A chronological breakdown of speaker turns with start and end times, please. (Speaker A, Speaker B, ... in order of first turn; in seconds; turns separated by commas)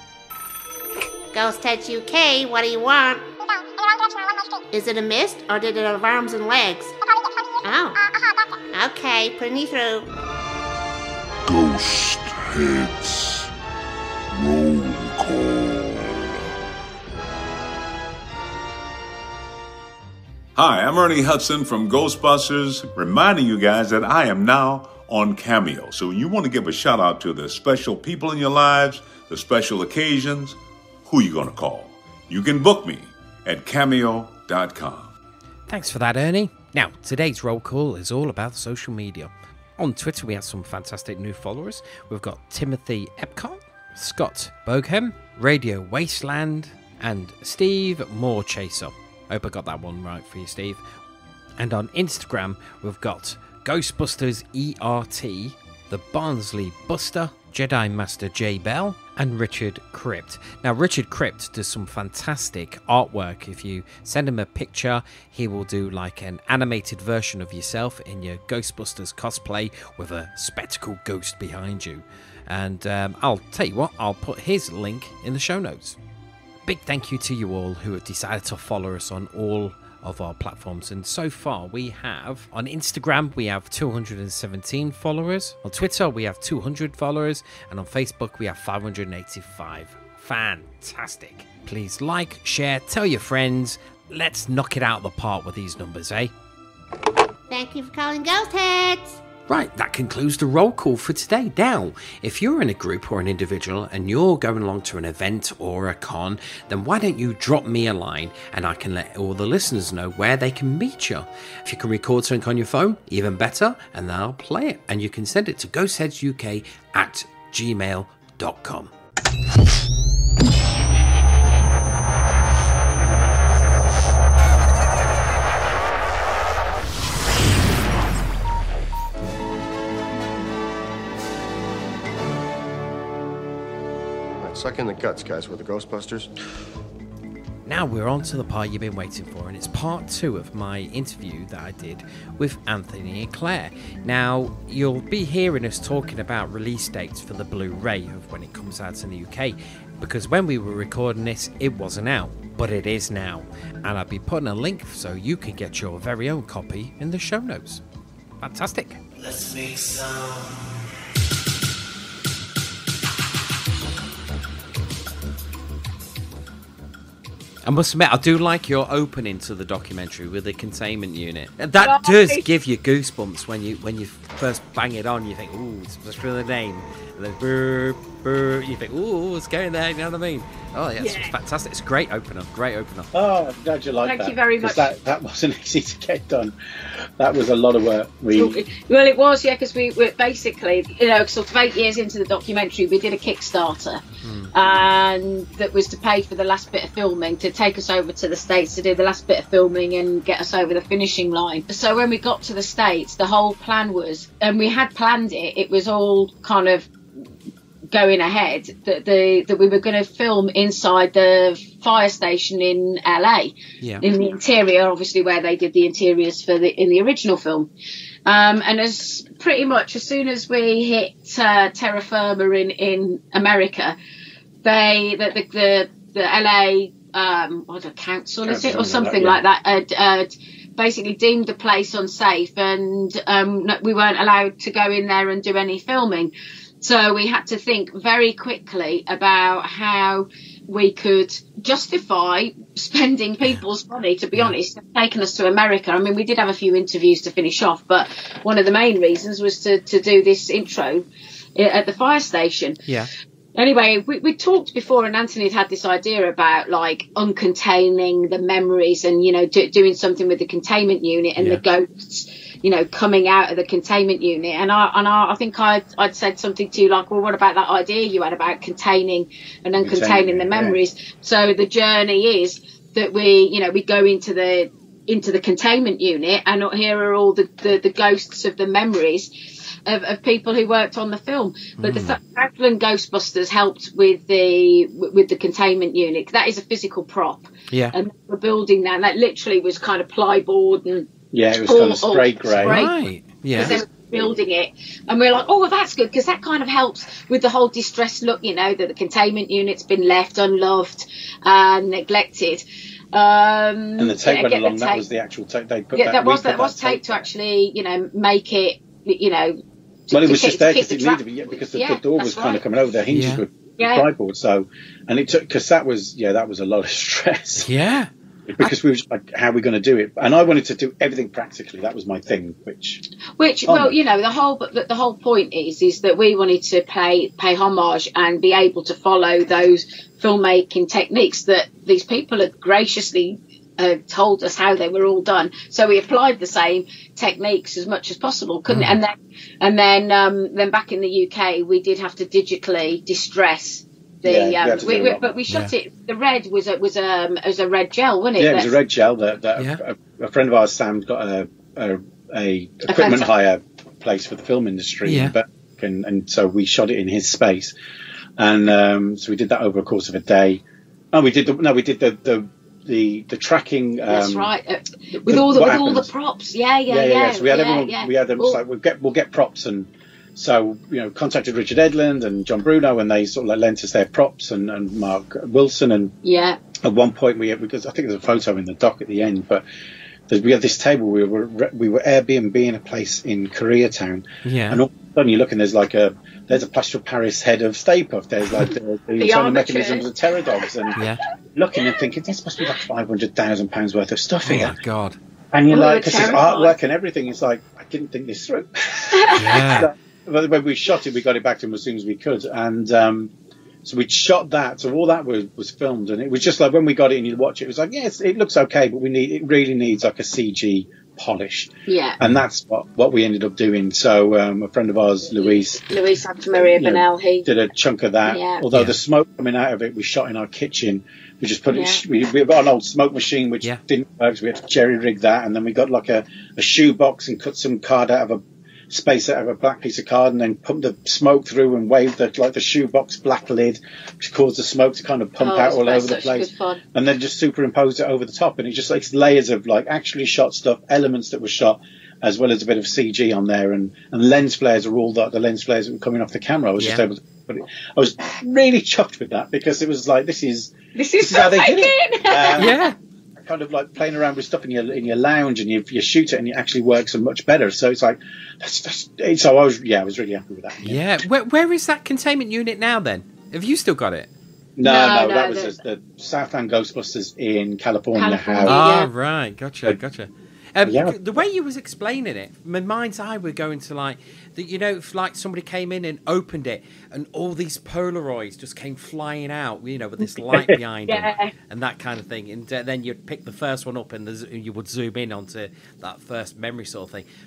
Speaker A: 1.3-3.2, Speaker A: 4.7-6.9, Speaker A: 7.6-8.0, Speaker A: 8.7-10.1, Speaker B: 11.4-13.4, Speaker B: 14.3-16.4, Speaker C: 20.6-35.1, Speaker D: 35.7-50.8, Speaker D: 51.6-76.0, Speaker D: 76.6-96.3, Speaker A: 97.5-99.2, Speaker D: 99.5-118.9, Speaker E: 134.4-136.3, Speaker D: 137.7-157.8, Speaker D: 158.4-160.5, Speaker D: 167.6-183.1, Speaker F: 171.8-172.4, Speaker F: 181.0-181.3, Speaker G: 183.1-186.5, Speaker F: 184.0-184.9, Speaker G: 187.2-188.6, Speaker F: 188.3-194.0, Speaker D: 194.2-194.5, Speaker F: 194.5-206.9, Speaker F: 207.9-217.7, Speaker F: 218.2-223.9, Speaker F: 224.6-252.8, Speaker G: 228.4-229.4, Speaker F: 253.5-279.3, Speaker G: 269.8-270.8, Speaker F: 279.9-291.1, Speaker D: 281.8-282.2, Speaker D: 287.7-287.9, Speaker G: 291.3-292.9, Speaker F: 291.6-292.9, Speaker D: 292.6-293.8, Speaker F: 293.6-305.0, Speaker G: 304.0-307.3, Speaker F: 305.9-312.6, Speaker G: 310.1-317.7, Speaker D: 313.1-313.4, Speaker F: 313.8-314.1, Speaker D: 317.6-318.1, Speaker G: 318.5-323.0, Speaker F: 323.4-348.7, Speaker G: 323.6-323.9, Speaker D: 338.7-339.0, Speaker G: 344.2-345.4, Speaker G: 348.4-357.7, Speaker F: 352.9-353.3, Speaker D: 355.0-355.3, Speaker G: 358.4-364.5, Speaker F: 364.1-368.6, Speaker G: 365.2-366.1, Speaker G: 366.9-376.1, Speaker F: 376.2-376.6, Speaker G: 376.8-379.6, Speaker G: 380.3-391.0, Speaker D: 384.4-384.8, Speaker F: 389.2-390.1, Speaker G: 391.5-394.8, Speaker D: 394.4-395.2, Speaker G: 395.5-403.3, Speaker F: 395.7-396.7, Speaker F: 399.1-399.4, Speaker D: 399.4-399.9, Speaker G: 403.8-415.8, Speaker F: 411.9-412.2, Speaker F: 415.4-417.5, Speaker G: 416.6-452.8, Speaker F: 418.2-418.6, Speaker F: 421.7-422.0, Speaker F: 435.4-436.8, Speaker D: 446.8-447.0, Speaker F: 450.9-452.8, Speaker D: 452.6-452.9, Speaker G: 453.4-461.0, Speaker D: 460.8-464.3, Speaker G: 464.8-468.8, Speaker F: 464.8-465.7, Speaker F: 468.1-469.1, Speaker D: 468.6-487.2, Speaker G: 470.8-471.4, Speaker G: 480.2-480.8, Speaker F: 481.1-481.5